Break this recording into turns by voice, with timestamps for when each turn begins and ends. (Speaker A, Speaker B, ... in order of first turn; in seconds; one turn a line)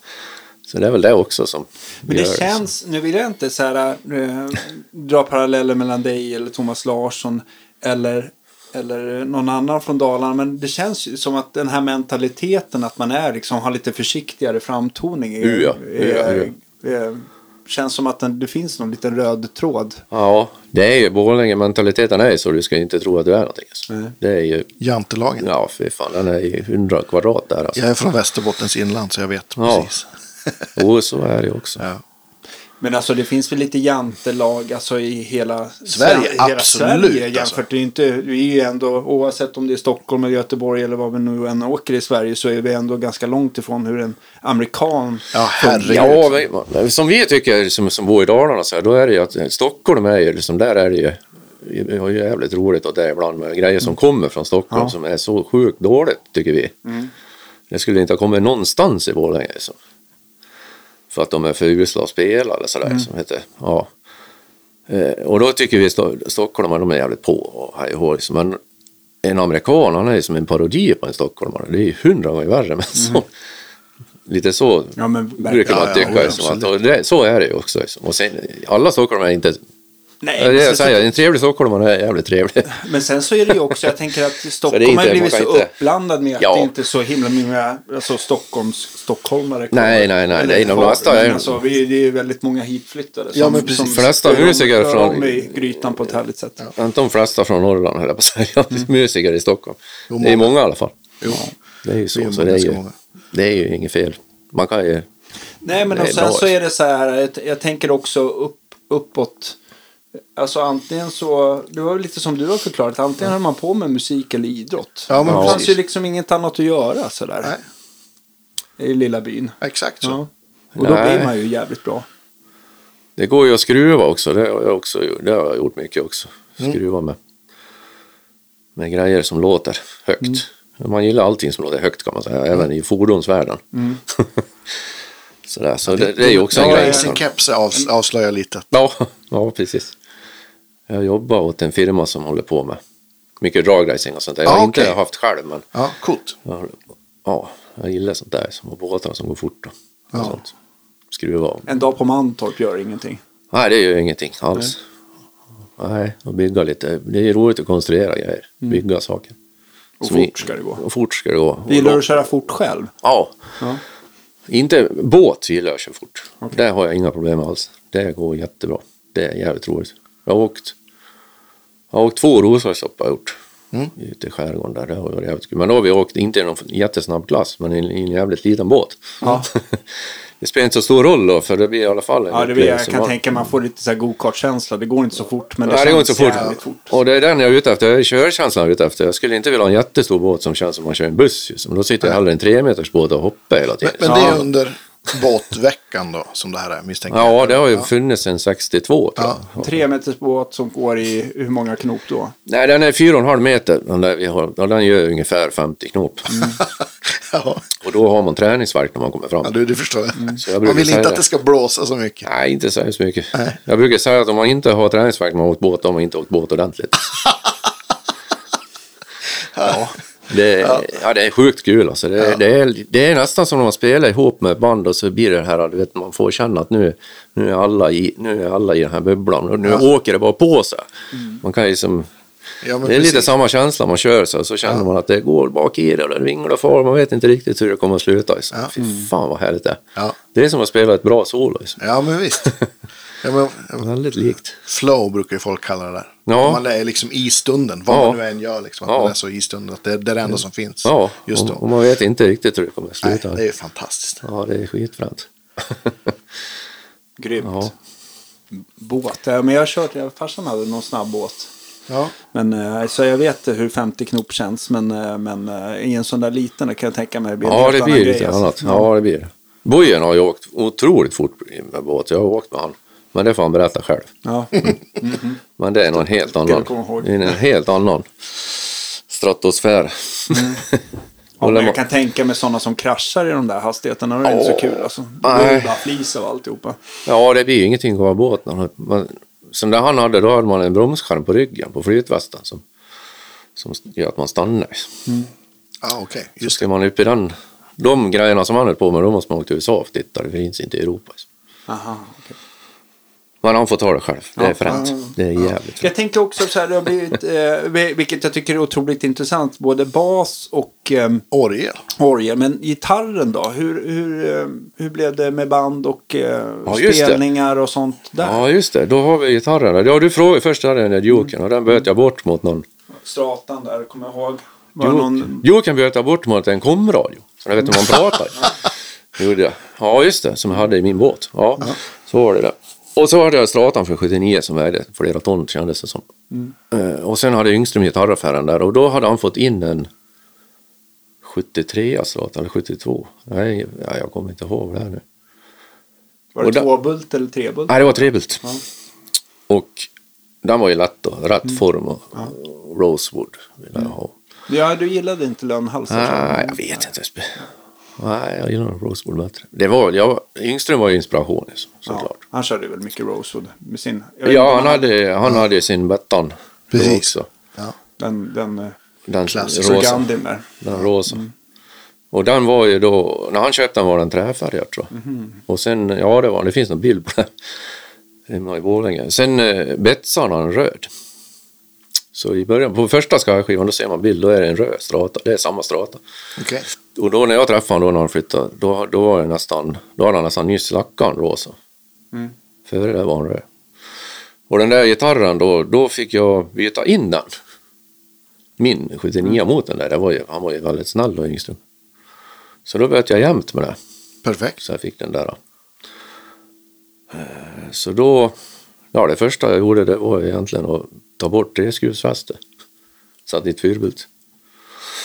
Speaker A: 0.7-2.7
Speaker B: 2.1-20.0
Speaker A: 15.4-16.5
Speaker A: 20.1-24.7
Speaker B: 23.9-24.1
Speaker C: 24.8-25.5
Speaker A: 25.4-27.8
Speaker C: 27.7-30.5
Speaker A: 29.6-30.0
Speaker A: 30.7-31.8
Speaker B: 32.8-46.2
Speaker C: 35.9-37.6
Speaker C: 45.3-46.3
Speaker A: 45.9-56.8
Speaker B: 56.9-57.1
Speaker A: 57.7-59.8
Speaker A: 61.1-63.9
Speaker A: 64.9-68.6
Speaker A: 69.2-73.3
Speaker B: 73.0-73.2
Speaker A: 74.3-79.6
Speaker B: 75.0-76.4
Speaker C: 75.7-76.7
Speaker B: 80.2-81.1
Speaker A: 80.4-82.8
Speaker B: 82.7-96.7
Speaker A: 84.7-85.7
Speaker A: 86.4-86.7
Speaker A: 89.7-91.6
Speaker C: 90.5-91.0
Speaker C: 93.3-94.4
Speaker A: 93.8-95.4
Speaker A: 96.8-101.0
Speaker C: 100.1-100.5
Speaker A: 101.8-102.8
Speaker C: 102.1-102.9
Speaker A: 103.3-105.1
Speaker B: 105.6-109.6
Speaker A: 105.9-106.5
Speaker B: 110.4-117.5
Speaker C: 115.1-115.8
Speaker A: 115.2-115.7
Speaker B: 118.8-122.1
Speaker C: 119.6-120.2
Speaker A: 120.7-121.3
Speaker A: 123.2-127.2
Speaker A: 128.8-134.8
Speaker B: 133.7-134.0
Speaker A: 135.4-137.2
Speaker C: 135.9-138.7
Speaker B: 136.5-137.1
Speaker A: 138.7-139.9
Speaker A: 140.9-142.8
Speaker A: 143.4-145.7
Speaker C: 144.4-144.9
Speaker C: 145.7-146.4
Speaker A: 146.4-150.5
Speaker A: 151.1-151.7
Speaker B: 151.7-153.2
Speaker A: 153.5-154.8
Speaker A: 155.8-159.4
Speaker B: 160.0-160.8
Speaker A: 160.0-162.3
Speaker B: 161.7-162.9
Speaker A: 163.0-163.4
Speaker A: 164.5-170.7
Speaker A: 171.9-173.3
Speaker A: 174.0-179.8
Speaker B: 179.2-179.5
Speaker A: 180.4-183.4
Speaker B: 182.3-187.0
Speaker A: 185.6-194.5
Speaker C: 193.8-197.9
Speaker B: 194.1-194.4
Speaker A: 197.1-199.8
Speaker B: 199.6-202.3
Speaker A: 202.4-206.5
Speaker B: 206.3-206.6
Speaker C: 206.6-207.7
Speaker A: 207.8-209.6
Speaker C: 209.4-212.3
Speaker A: 210.3-211.2
Speaker A: 212.2-217.3
Speaker C: 219.5-219.9
Speaker A: 220.3-232.1
Speaker C: 232.6-233.3
Speaker A: 232.8-239.8
Speaker B: 238.8-239.1
Speaker A: 240.3-241.8
Speaker C: 241.8-242.5
Speaker C: 243.2-243.9
Speaker A: 243.8-244.6
Speaker C: 244.7-251.6
Speaker A: 246.3-246.6
Speaker A: 247.9-248.2
Speaker A: 248.9-249.2
Speaker A: 250.8-253.4
Speaker C: 253.0-254.2
Speaker A: 254.2-256.1
Speaker B: 257.2-257.7
Speaker A: 257.4-257.7
Speaker B: 258.6-261.5
Speaker C: 261.9-262.1
Speaker B: 262.3-268.9
Speaker A: 267.4-274.1
Speaker B: 274.2-275.4
Speaker A: 275.6-280.8
Speaker B: 276.4-277.4
Speaker B: 280.3-280.6
Speaker B: 281.4-286.8
Speaker A: 281.4-281.8
Speaker A: 284.2-285.8
Speaker A: 287.1-292.6
Speaker A: 293.6-294.9
Speaker C: 295.8-296.6
Speaker A: 296.4-301.2
Speaker B: 301.7-302.4
Speaker A: 303.4-305.9
Speaker B: 304.4-305.1
Speaker B: 305.8-311.2
Speaker C: 311.3-311.8
Speaker B: 312.0-318.4
Speaker A: 316.7-317.2
Speaker A: 318.2-322.6
Speaker B: 323.1-325.4
Speaker A: 324.8-336.1
Speaker A: 336.7-339.9
Speaker A: 341.2-345.0
Speaker B: 346.4-348.6
Speaker A: 346.4-346.7
Speaker A: 347.7-348.5
Speaker A: 349.5-349.9
Speaker A: 350.4-354.1
Speaker B: 354.5-356.8
Speaker A: 355.9-357.4
Speaker A: 358.0-362.2
Speaker B: 361.9-364.9
Speaker A: 364.2-367.3
Speaker C: 366.7-367.8
Speaker B: 368.0-368.8
Speaker A: 369.1-370.1
Speaker C: 369.3-369.8
Speaker B: 369.5-370.5
Speaker A: 370.6-371.3
Speaker A: 372.1-374.9
Speaker B: 374.9-375.3
Speaker A: 375.5-377.3
Speaker A: 378.3-380.9
Speaker A: 382.1-386.0
Speaker C: 386.4-386.7
Speaker A: 386.9-391.6
Speaker A: 392.7-393.4
Speaker A: 394.5-397.3
Speaker A: 398.6-401.6
Speaker A: 402.7-403.8
Speaker C: 404.2-404.6
Speaker A: 404.6-405.4
Speaker A: 407.1-408.4
Speaker A: 408.9-412.4
Speaker A: 413.3-414.1